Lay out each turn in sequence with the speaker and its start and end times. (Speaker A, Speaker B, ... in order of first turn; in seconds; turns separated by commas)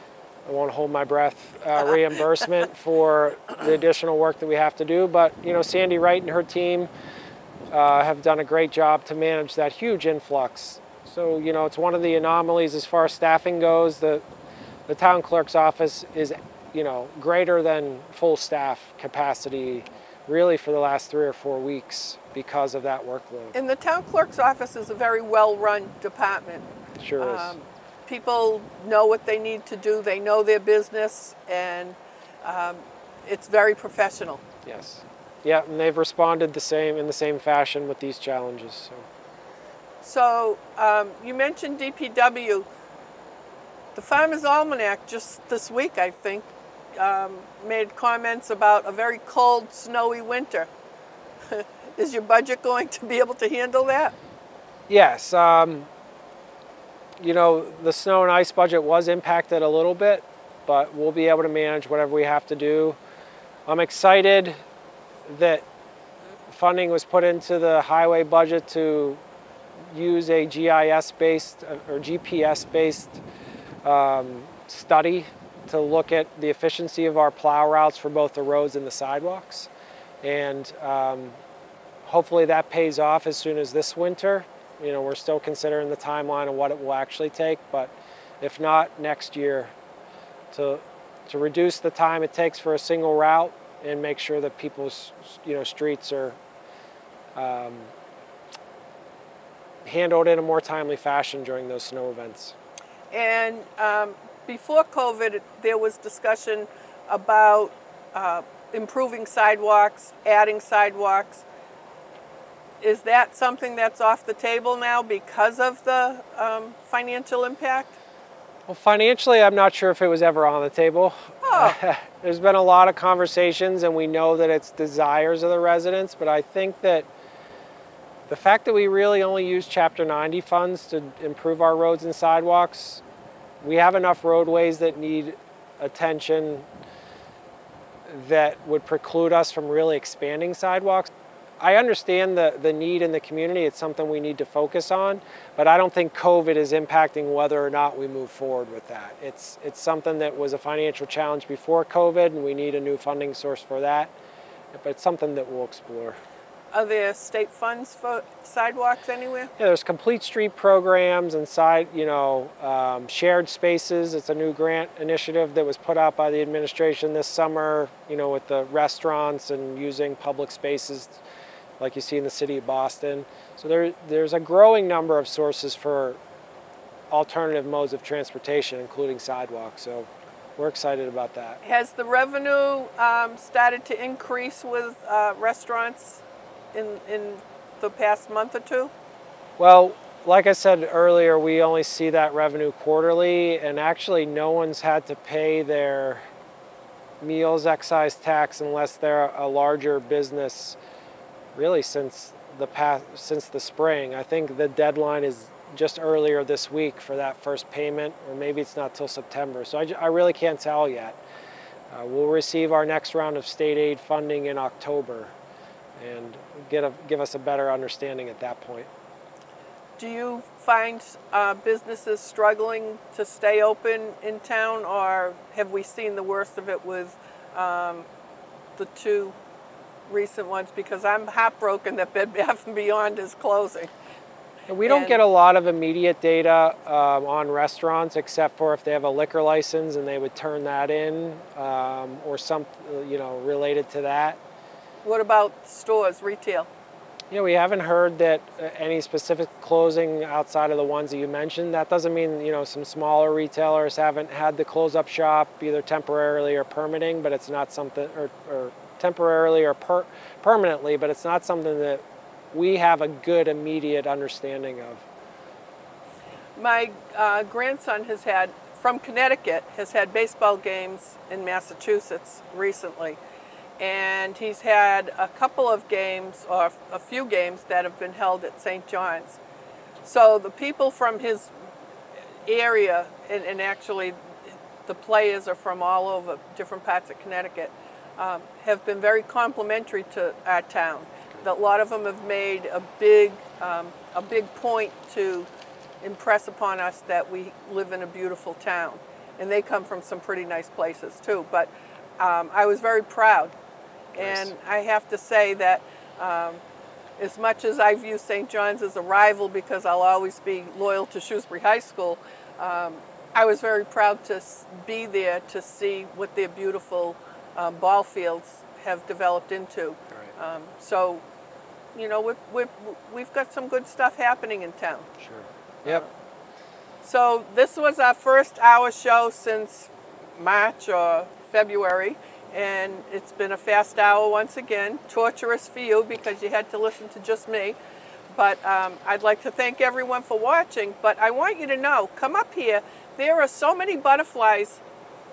Speaker A: 0.5-6.9, Speaker A: 7.7-14.2, Speaker A: 14.9-23.5, Speaker B: 23.5-34.4, Speaker A: 27.0-27.5, Speaker A: 34.6-39.0, Speaker B: 40.0-42.6, Speaker B: 43.9-50.7, Speaker B: 51.5-54.1, Speaker A: 54.9-55.9, Speaker A: 57.2-63.0, Speaker A: 63.7-64.6, Speaker A: 65.2-65.6, Speaker A: 66.5-69.2, Speaker A: 69.8-73.2, Speaker A: 73.8-79.7, Speaker A: 80.2-81.3, Speaker A: 82.0-89.7, Speaker A: 90.5-96.4, Speaker A: 97.3-97.9, Speaker A: 99.8-102.5, Speaker B: 103.1-111.4, Speaker B: 112.8-117.9, Speaker A: 118.7-127.0, Speaker B: 121.4-121.8, Speaker A: 128.3-133.0, Speaker A: 133.6-136.7, Speaker A: 138.1-154.1, Speaker A: 154.7-156.2, Speaker B: 156.7-159.5, Speaker A: 159.6-171.2, Speaker A: 171.8-176.2, Speaker A: 177.1-181.6, Speaker B: 181.6-186.2, Speaker B: 186.7-188.9, Speaker A: 189.6-196.2, Speaker A: 197.2-200.8, Speaker A: 201.5-211.2, Speaker A: 211.9-215.3, Speaker A: 216.0-218.9, Speaker B: 220.0-228.1, Speaker B: 228.8-229.3, Speaker B: 230.1-233.9, Speaker A: 234.7-244.4, Speaker B: 234.8-235.2, Speaker B: 245.0-246.7, Speaker A: 247.3-265.1, Speaker B: 266.6-273.2, Speaker B: 273.8-279.4, Speaker B: 280.0-281.5, Speaker B: 282.4-284.1, Speaker B: 284.9-295.5, Speaker B: 296.0-303.5, Speaker B: 304.1-306.6, Speaker A: 304.2-304.5, Speaker B: 307.2-321.2, Speaker B: 321.9-325.1, Speaker A: 325.2-326.0, Speaker B: 327.0-337.8, Speaker B: 338.3-344.8